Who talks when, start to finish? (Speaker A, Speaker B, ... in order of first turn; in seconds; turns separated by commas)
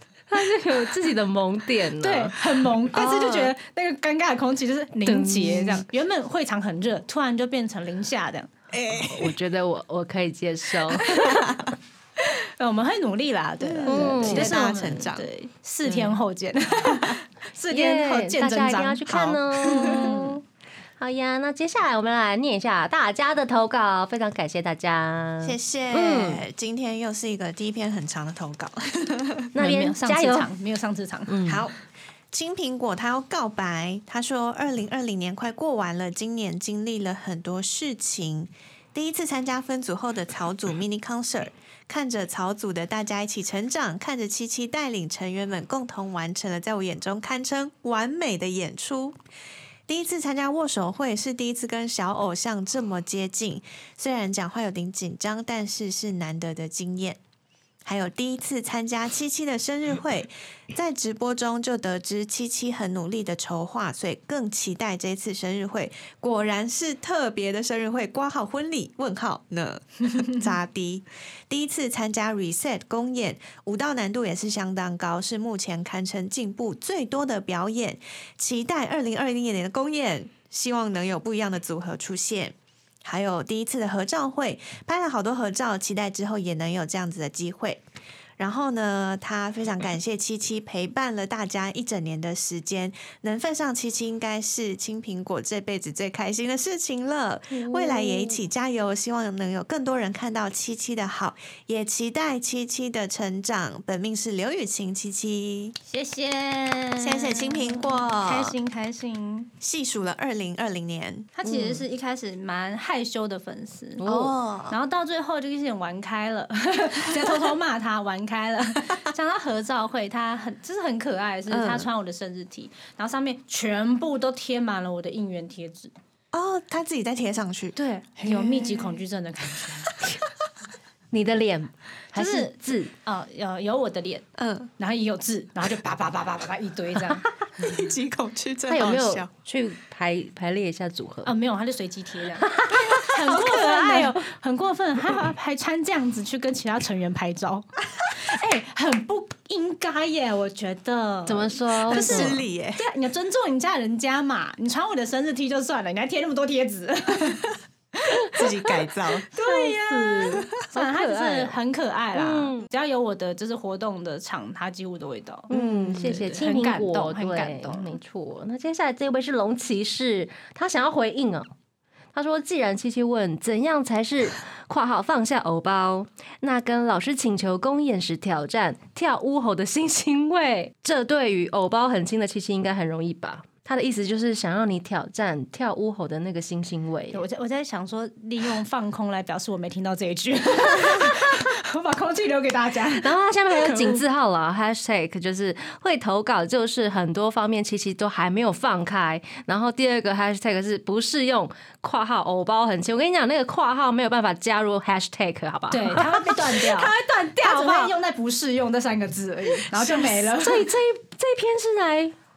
Speaker A: 0.3-2.4, Speaker B: 2.0-8.5, Speaker C: 2.9-3.5, Speaker A: 5.0-5.8, Speaker C: 8.7-9.4, Speaker A: 9.0-11.1, Speaker B: 10.9-11.7, Speaker C: 11.3-11.7, Speaker B: 12.2-20.4, Speaker C: 13.6-15.3, Speaker A: 13.8-14.5, Speaker A: 17.7-20.4, Speaker C: 19.9-20.1, Speaker A: 21.0-26.4, Speaker C: 25.4-29.5, Speaker A: 29.5-30.5, Speaker B: 29.6-31.4, Speaker A: 31.3-31.6, Speaker C: 31.4-31.8, Speaker C: 32.3-49.1, Speaker C: 49.9-57.2, Speaker C: 57.8-87.8, Speaker C: 88.4-105.7, Speaker A: 97.7-98.3, Speaker B: 105.8-109.5, Speaker C: 107.0-108.5, Speaker C: 109.6-111.4, Speaker B: 111.4-114.0, Speaker A: 114.0-114.3, Speaker C: 114.0-114.8, Speaker B: 114.7-125.9, Speaker C: 121.5-121.9, Speaker C: 126.3-129.0, Speaker B: 127.8-130.0, Speaker A: 131.1-132.9, Speaker B: 132.1-134.2, Speaker C: 134.3-134.7, Speaker B: 134.8-137.3, Speaker C: 137.6-139.3, Speaker A: 138.7-141.3, Speaker B: 141.2-157.4, Speaker A: 142.4-144.1, Speaker C: 143.3-144.0, Speaker A: 151.3-152.4, Speaker C: 151.9-152.8, Speaker B: 158.0-165.5, Speaker C: 158.3-159.3, Speaker A: 159.3-161.5, Speaker A: 162.1-162.7, Speaker A: 165.5-171.5, Speaker C: 165.5-166.2, Speaker B: 166.0-167.9, Speaker A: 172.1-187.2, Speaker B: 187.1-194.0, Speaker A: 193.0-207.9, Speaker B: 205.7-210.7, Speaker A: 210.2-212.1